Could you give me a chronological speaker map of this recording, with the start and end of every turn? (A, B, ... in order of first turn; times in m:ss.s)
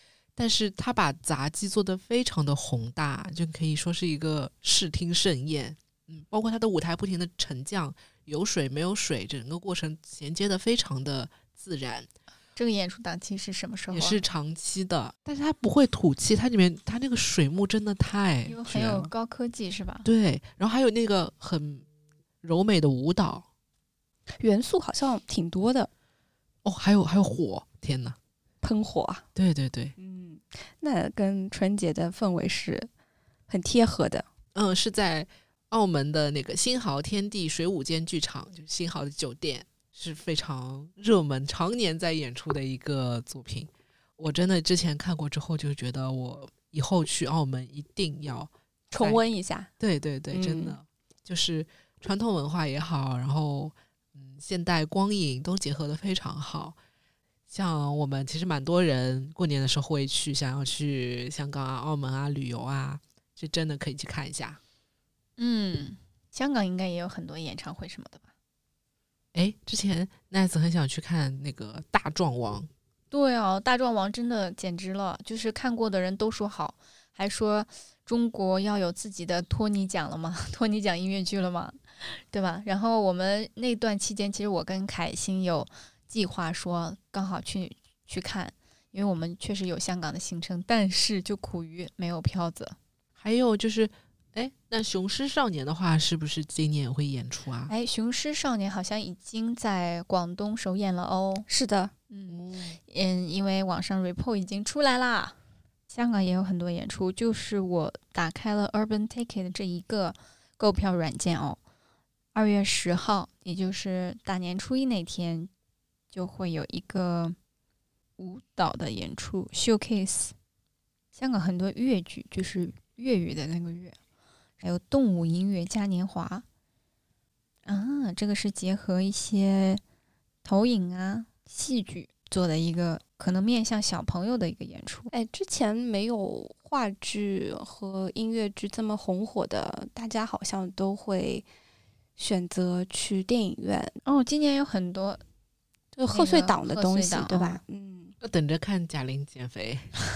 0:00.4-0:12.1 A
0:12.6-0:14.2 B
0:13.9-0:19.1 A
0:18.5-0:20.1 B
0:20.0-0:21.9 A
0:22.4-0:23.5 A
0:24.4-0:25.9 C
0:26.6-0:28.2 A
0:28.6-0:29.3 C
0:29.4-0:29.9 A
0:30.0-0:32.9 C
0:33.5-0:34.3 C
0:34.6-0:49.2 A
0:48.9-0:49.7 C
0:49.8-0:56.8 A
0:50.3-0:50.8 C
0:57.5-1:04.6 A
1:05.4-1:08.3 B
1:09.3-1:12.7 A
1:13.1-1:32.8 B
1:33.2-1:37.7 A
1:37.7-1:41.5 B
1:41.5-1:41.9 C
1:42.1-1:45.4 B
1:42.3-1:42.8 A
1:45.9-1:51.6 B
1:52.3-1:55.5 B
1:56.1-1:57.4 B
1:58.2-2:00.4 B
2:01.2-2:04.0 B
2:04.6-2:06.4 B
2:07.6-2:09.8 B
2:10.4-2:15.1 B
2:15.1-2:21.5 C
2:22.2-2:24.0 C
2:24.0-2:25.2 B
2:26.0-2:28.2 C
2:26.1-2:27.6 B
2:28.2-2:29.9 A